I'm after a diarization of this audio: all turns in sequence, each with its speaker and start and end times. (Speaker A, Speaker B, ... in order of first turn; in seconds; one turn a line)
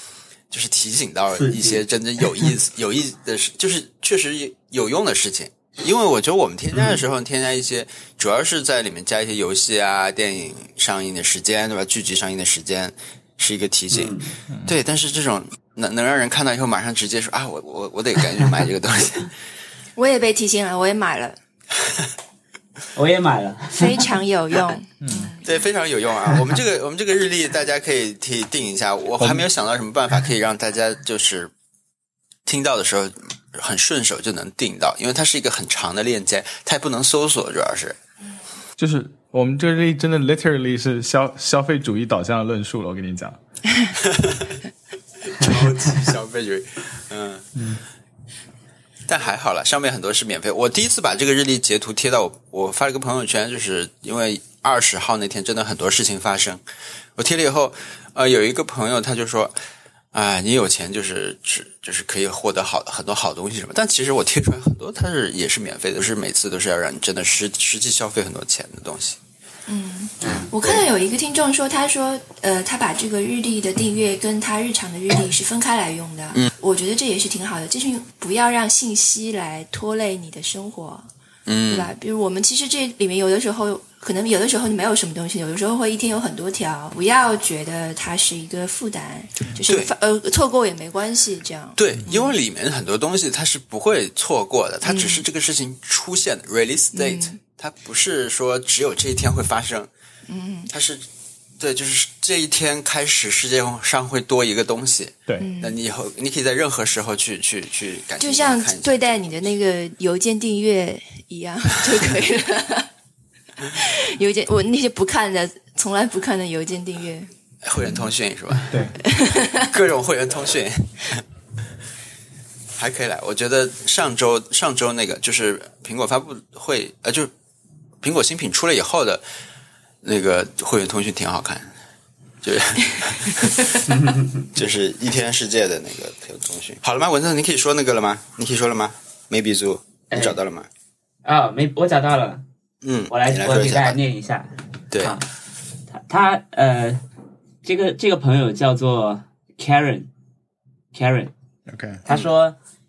Speaker A: 0.5-19.3
Speaker B: 1.3-1.8
Speaker B: 6.7-7.0
Speaker B: 13.9-14.3
Speaker C: 19.9-21.4
Speaker B: 22.9-24.1
Speaker C: 23.7-25.5
Speaker D: 25.0-25.3
Speaker A: 25.4-31.5
Speaker D: 29.2-29.4
Speaker A: 32.5-38.0
Speaker D: 38.8-43.4
Speaker A: 44.0-44.6
Speaker A: 45.2-47.5
Speaker A: 49.0-56.6
Speaker A: 57.1-59.5
Speaker A: 60.1-69.2
Speaker C: 69.7-81.1
Speaker B: 70.2-70.5
Speaker A: 70.2-70.8
Speaker A: 81.5-81.9
Speaker C: 81.7-92.3
Speaker A: 91.8-99.9
Speaker C: 94.8-95.2
Speaker C: 96.9-97.4
Speaker C: 100.3-100.7
Speaker A: 100.7-101.0
Speaker A: 101.6-109.5
Speaker C: 105.4-105.8
Speaker C: 108.2-112.9
Speaker C: 113.7-117.3
Speaker A: 117.6-118.8
Speaker C: 119.0-119.7
Speaker A: 119.5-121.2
Speaker A: 122.8-127.3
Speaker A: 128.0-129.2
Speaker A: 130.0-131.7
Speaker A: 132.4-133.8
Speaker B: 133.9-134.5
Speaker A: 134.5-140.7
Speaker B: 140.1-140.4
Speaker B: 141.2-142.4
Speaker A: 142.8-144.0
Speaker B: 143.1-145.3
Speaker A: 144.9-145.2
Speaker B: 145.9-147.0
Speaker B: 147.6-150.1
Speaker B: 150.9-151.3
Speaker D: 151.7-152.0
Speaker B: 152.1-152.6